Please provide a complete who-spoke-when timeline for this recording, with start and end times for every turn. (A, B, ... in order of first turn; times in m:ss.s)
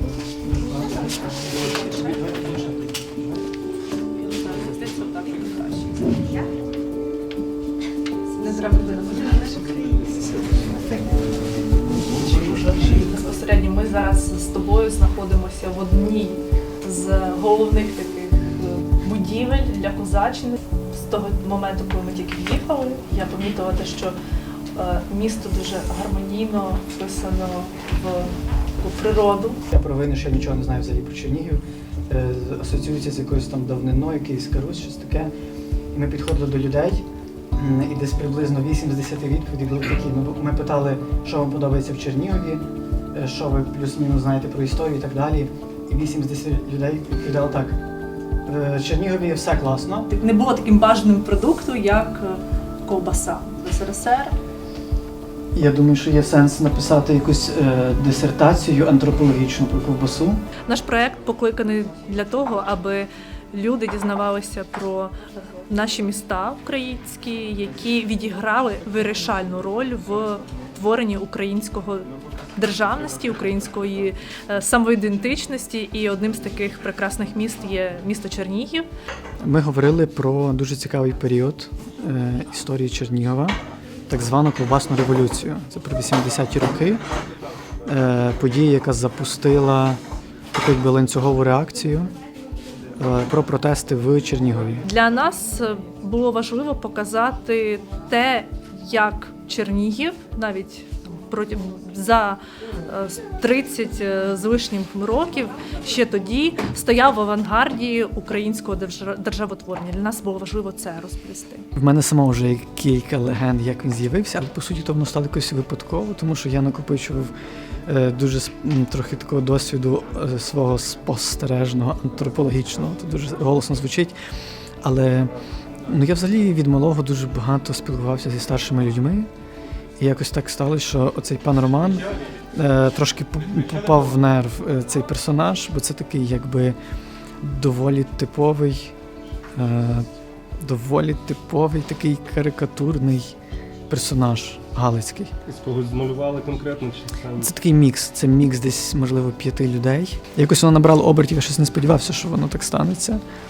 0:00.4-0:02.8 A
0:04.0-0:06.5 A
0:08.3-0:11.3 A
0:11.8-0:24.2 A
0:24.7-0:29.6 A
0:29.7-0:35.3 B
0:35.9-0:37.0 B
0:37.6-0:47.8 B
0:48.5-0:50.1 B
0:50.1-0:54.3 A
0:55.6-1:00.4 B
1:00.7-1:05.2 A
1:05.7-1:18.9 A
1:19.4-1:23.6 B
1:24.1-1:27.0 B
1:27.9-1:30.0 B
1:30.5-1:32.1 B
1:33.0-1:34.8 B
1:34.8-1:51.7 A
1:51.8-1:57.3 B
1:57.9-2:04.2 B
2:04.8-2:05.3 B
2:05.9-2:09.3 B
2:10.0-2:16.8 B
2:17.4-2:18.9 B
2:19.6-2:20.1 B
2:20.6-2:23.3 B
2:23.9-2:25.4 B
2:25.5-2:27.5 C
2:27.4-2:33.2 B